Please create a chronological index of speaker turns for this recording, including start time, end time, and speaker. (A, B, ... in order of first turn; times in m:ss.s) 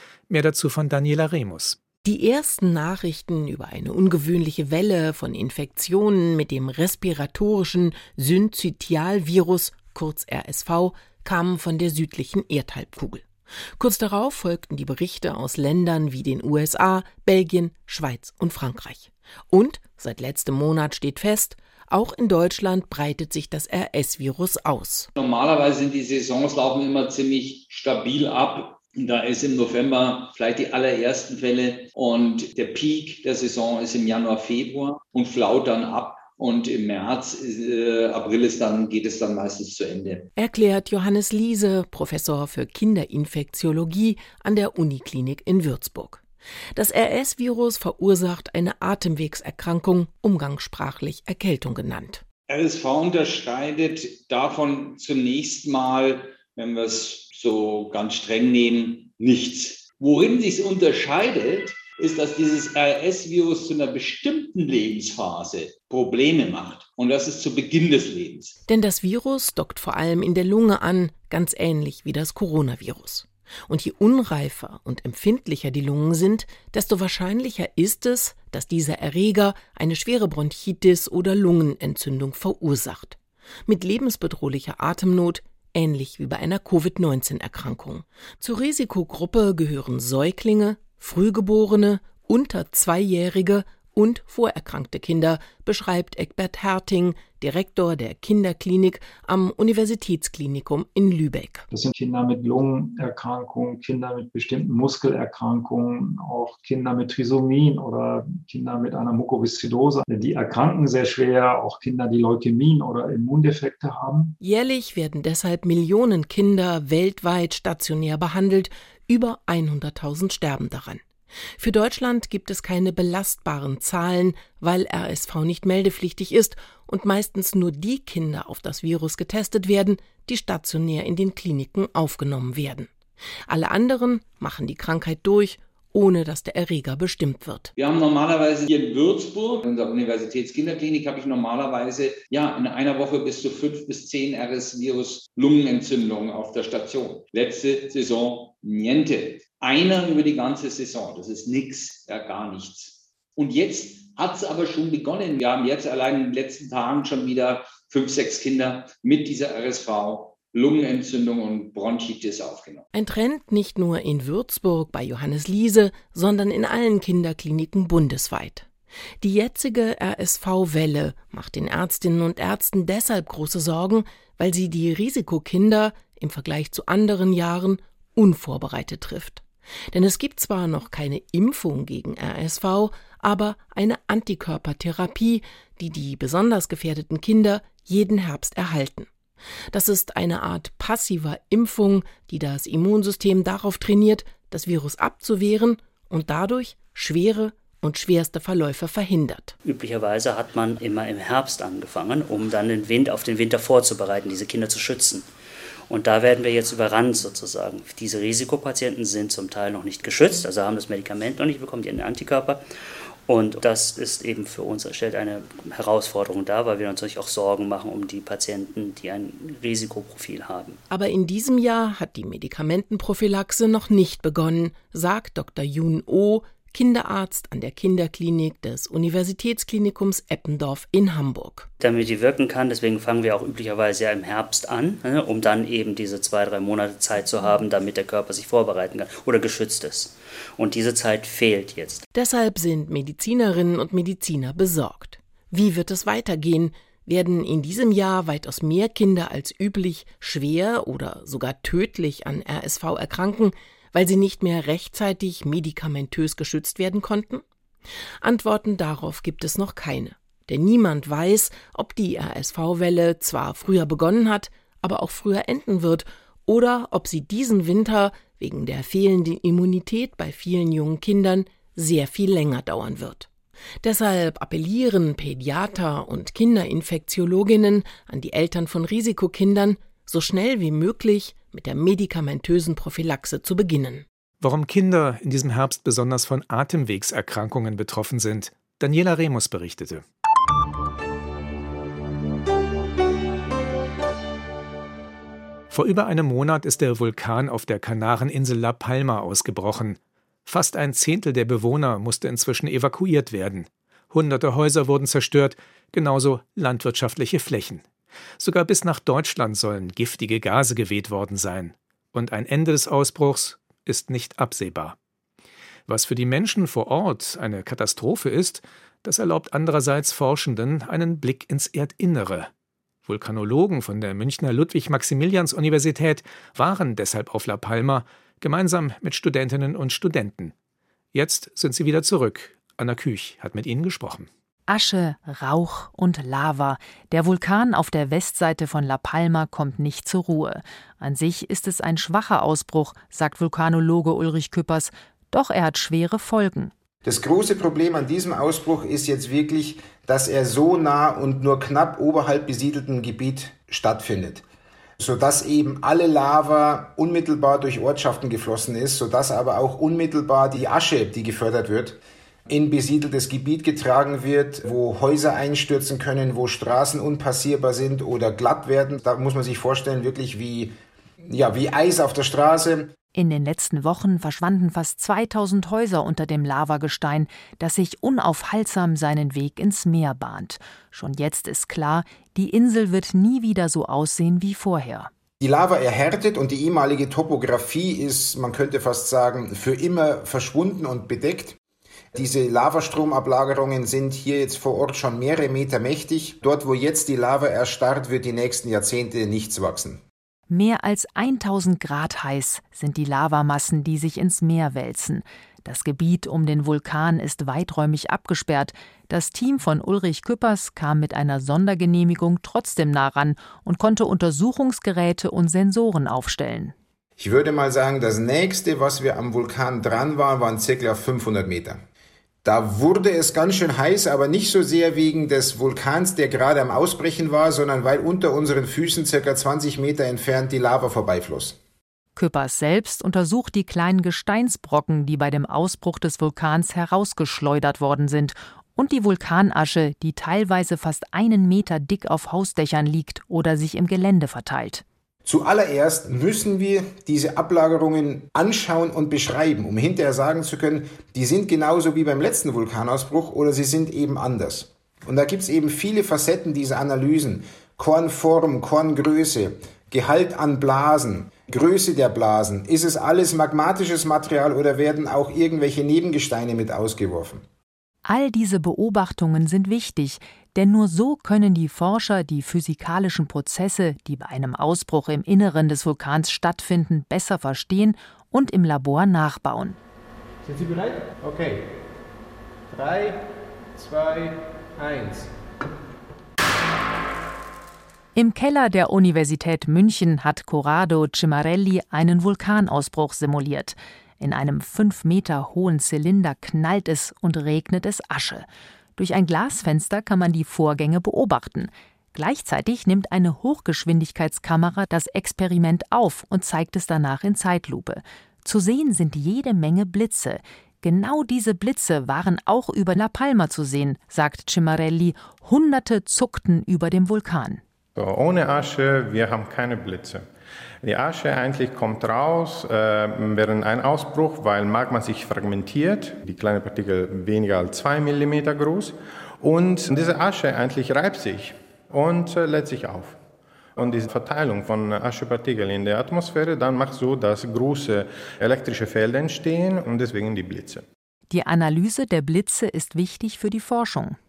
0:00.3-0:01.8 A
0:02.0-0:25.1 B
0:25.2-0:40.3 C
0:40.4-0:46.2 B
0:46.8-0:52.2 B
0:52.5-1:08.6 C
1:08.7-1:41.7 B
1:41.7-1:54.4 D
1:54.4-2:01.0 B
2:01.6-2:12.9 B
2:13.5-2:17.7 B
2:17.8-2:42.9 C
2:42.9-2:48.7 B
2:49.2-3:09.1 B
3:09.7-3:19.6 B
3:19.6-3:25.3 E
3:25.9-3:32.6 E
3:33.3-3:40.8 E
3:40.9-3:51.7 B
3:51.8-4:02.0 E
4:02.1-4:17.4 B
4:18.2-4:33.3 B
4:33.8-4:44.0 B
4:44.4-4:50.0 A
4:55.7-5:07.8 A
5:08.4-5:15.0 A
5:15.9-5:22.5 A
5:23.0-5:30.5 A
5:31.1-5:34.3 A
5:34.7-5:46.7 F
5:47.0-5:54.4 G
5:55.0-6:12.9 G
6:13.2-6:25.1 F
6:25.4-6:31.6 G
6:32.1-6:40.0 G
6:40.5-6:56.7 F
6:57.2-7:01.8 G
7:02.4-7:11.6 G
7:12.2-7:24.8 F
7:25.3-7:47.4 G
7:48.0-7:59.8 F
8:00.4-8:01.8 H
8:02.7-8:05.3 H
8:08.2-8:18.5 F
8:19.0-8:37.6 F
8:38.0-8:40.2 I
8:40.8-8:53.2 I
8:53.8-9:00.8 I
9:01.3-9:04.2 F